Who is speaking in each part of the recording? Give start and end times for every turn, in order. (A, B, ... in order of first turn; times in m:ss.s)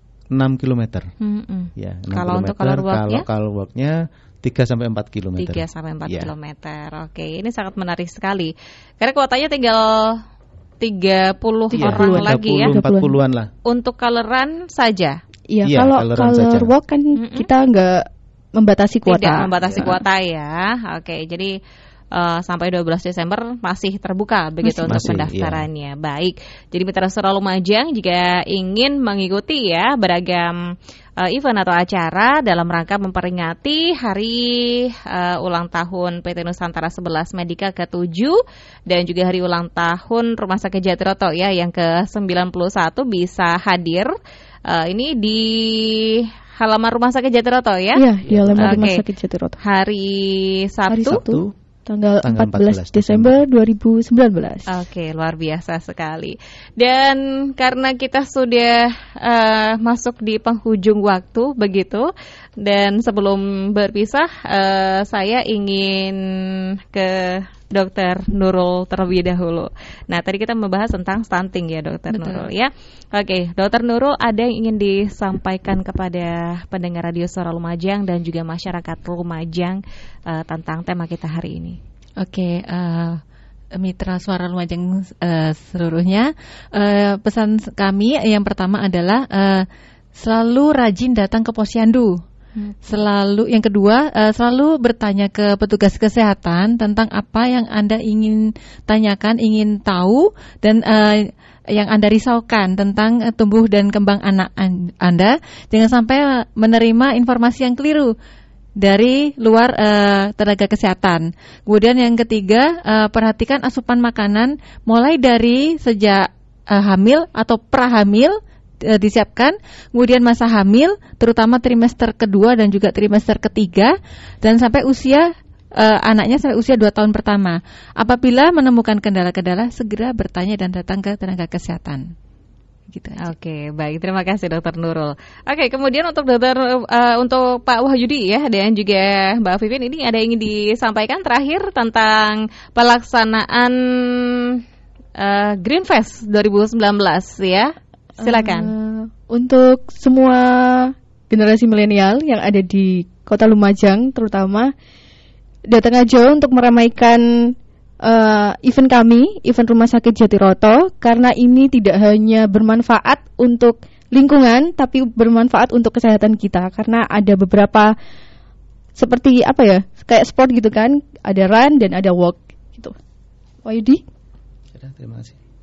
0:00.3-0:01.1 A
0:01.2-0:03.2 B
0:01.8-0:06.3 A
0:05.4-0:10.2 B
0:10.8-0:12.7 B
0:11.8-0:13.5 A
0:11.8-0:13.2 C
0:13.6-0:15.2 B
0:15.5-0:19.8 C
0:15.6-0:16.7 A
0:17.1-0:17.5 B
0:19.0-0:21.6 B
0:19.6-0:20.0 A
0:22.1-0:30.6 B
0:24.6-0:25.0 C
0:24.8-0:25.6 A
0:31.2-0:44.1 B
0:44.7-0:48.0 B
0:48.0-0:49.6 C
0:48.2-0:48.9 A
0:48.6-0:49.0 B
0:49.6-0:51.2 B
0:50.9-0:54.7 C
0:51.0-0:51.5 A
0:52.2-0:53.4 A
0:54.7-1:21.8 B
1:12.1-1:12.5 D
1:22.2-1:23.2 D
1:23.7-1:32.2 D
1:32.8-1:48.1 D
1:48.8-2:12.1 D
2:12.9-2:13.3 D
2:13.2-2:24.6 B
2:25.2-2:28.7 B
2:28.2-2:34.7 C
2:35.7-2:47.9 C
2:49.0-2:52.9 C
2:53.6-2:54.0 C
2:54.8-2:55.4 A